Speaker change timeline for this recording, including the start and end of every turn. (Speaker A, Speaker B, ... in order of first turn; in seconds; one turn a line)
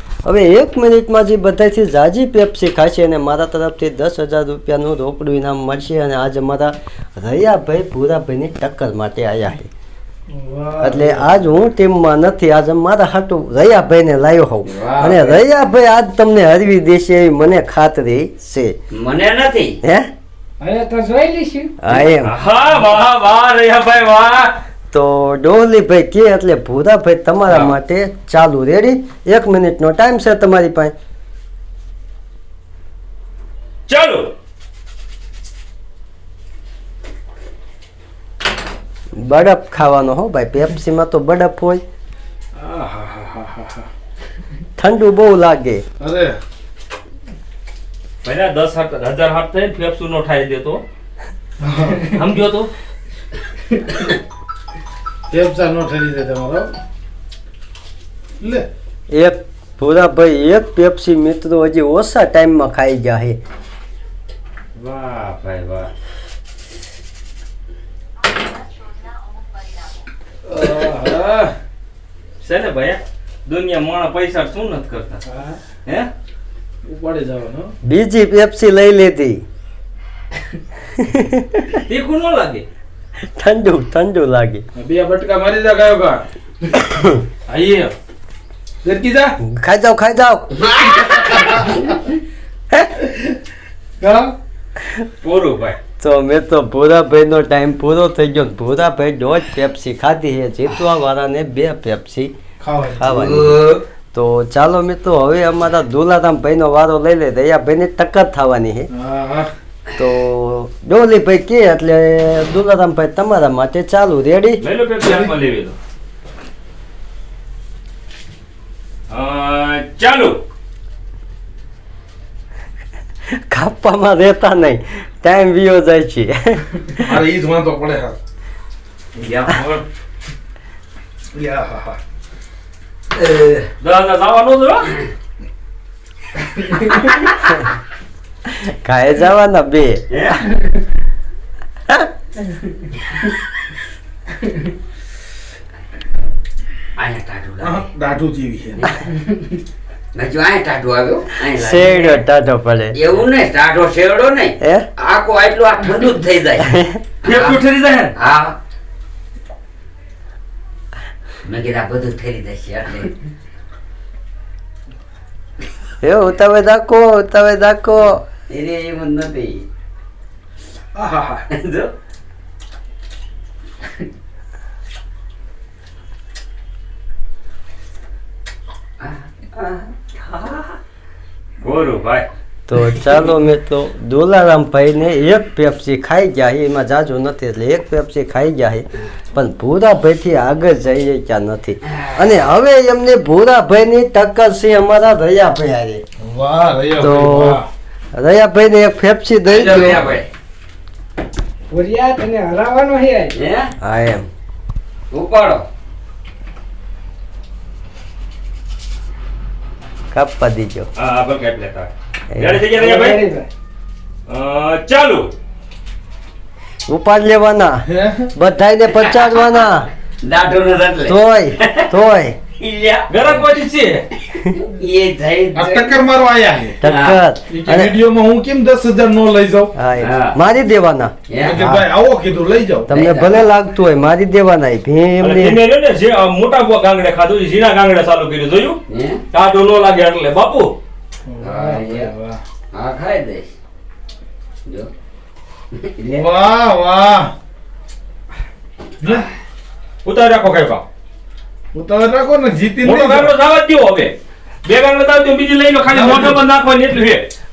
Speaker A: 0.2-9.7
Speaker B: 10.3-11.2
Speaker A: 10.8-18.8
Speaker C: 14.6-15.1
Speaker B: 15.1-15.4
Speaker C: 18.9-19.8
Speaker A: 19.8-20.1
Speaker D: 20.6-21.8
Speaker A: 21.8-22.3
Speaker E: 21.9-24.6
Speaker A: 24.9-30.9
Speaker C: 27.5-27.7
Speaker E: 33.9-34.3
Speaker A: 39.2-41.8
Speaker B: 42.5-43.9
Speaker A: 44.8-45.8
Speaker B: 46.0-46.4
Speaker E: 48.2-50.8
Speaker B: 51.6-52.1
Speaker E: 52.1-52.7
Speaker B: 55.3-56.7
Speaker B: 58.4-58.7
Speaker A: 59.1-63.4
Speaker E: 64.8-65.9
Speaker B: 70.5-71.5
Speaker E: 72.4-75.2
Speaker B: 75.3-75.6
Speaker B: 76.8-77.7
Speaker A: 77.8-79.4
Speaker A: 81.0-81.7
Speaker E: 81.8-82.7
Speaker A: 83.4-84.7
Speaker B: 84.7-86.2
Speaker A: 86.8-87.2
Speaker B: 87.5-87.9
Speaker B: 88.8-89.3
Speaker A: 89.4-90.6
Speaker C: 90.6-92.1
Speaker A: 92.7-93.0
Speaker B: 94.0-94.3
Speaker E: 95.2-95.8
Speaker A: 96.0-102.3
Speaker B: 102.6-103.1
Speaker A: 103.0-108.9
Speaker C: 103.1-103.8
Speaker B: 108.9-109.5
Speaker A: 109.9-114.6
Speaker E: 114.6-115.8
Speaker B: 115.0-115.3
Speaker E: 119.1-120.4
Speaker A: 123.4-126.9
Speaker B: 127.0-128.2
Speaker E: 129.2-129.8
Speaker B: 131.3-132.0
Speaker C: 133.2-133.6
Speaker E: 133.8-135.0
Speaker A: 138.6-140.2
Speaker C: 140.1-140.4
Speaker C: 146.9-147.9
Speaker B: 147.6-148.9
Speaker C: 148.8-149.0
Speaker C: 150.1-152.2
Speaker A: 151.6-153.0
Speaker C: 152.9-156.7
Speaker A: 154.6-154.9
Speaker A: 156.6-157.0
Speaker C: 157.2-157.6
Speaker E: 157.2-158.1
Speaker C: 158.2-158.6
Speaker C: 161.4-163.2
Speaker A: 166.0-168.2
Speaker C: 168.5-169.7
Speaker B: 170.9-171.4
Speaker C: 171.5-171.9
Speaker C: 179.0-180.8
Speaker E: 181.6-182.3
Speaker A: 182.7-196.0
Speaker C: 191.9-192.3
Speaker B: 196.2-197.7
Speaker A: 197.0-197.6
Speaker A: 198.1-200.1
Speaker C: 199.5-200.3
Speaker D: 201.7-203.3
Speaker C: 203.4-203.7
Speaker A: 203.8-204.3
Speaker C: 205.1-205.7
Speaker A: 210.1-210.9
Speaker E: 210.9-213.2
Speaker A: 212.3-212.6
Speaker D: 212.7-213.5
Speaker E: 214.3-215.3
Speaker A: 216.9-219.9
Speaker B: 217.8-218.3
Speaker C: 218.9-219.6
Speaker C: 220.2-221.9
Speaker A: 221.1-222.4
Speaker C: 222.5-223.1
Speaker E: 223.1-224.1
Speaker C: 224.3-226.0
Speaker B: 225.5-226.8
Speaker A: 226.8-227.9
Speaker C: 226.9-227.2
Speaker B: 227.5-229.7
Speaker A: 229.7-231.8
Speaker C: 230.0-230.4
Speaker C: 231.3-231.6
Speaker B: 231.4-232.9
Speaker A: 232.9-235.6
Speaker C: 232.9-233.5
Speaker E: 235.2-240.8
Speaker C: 238.9-239.2
Speaker B: 241.3-242.4
Speaker C: 241.4-242.1
Speaker C: 242.7-243.5
Speaker C: 244.7-244.9
Speaker C: 245.7-246.3
Speaker B: 246.1-247.3
Speaker B: 249.0-249.3
Speaker E: 250.0-250.8
Speaker B: 251.7-253.3
Speaker E: 252.8-257.3
Speaker B: 255.8-256.4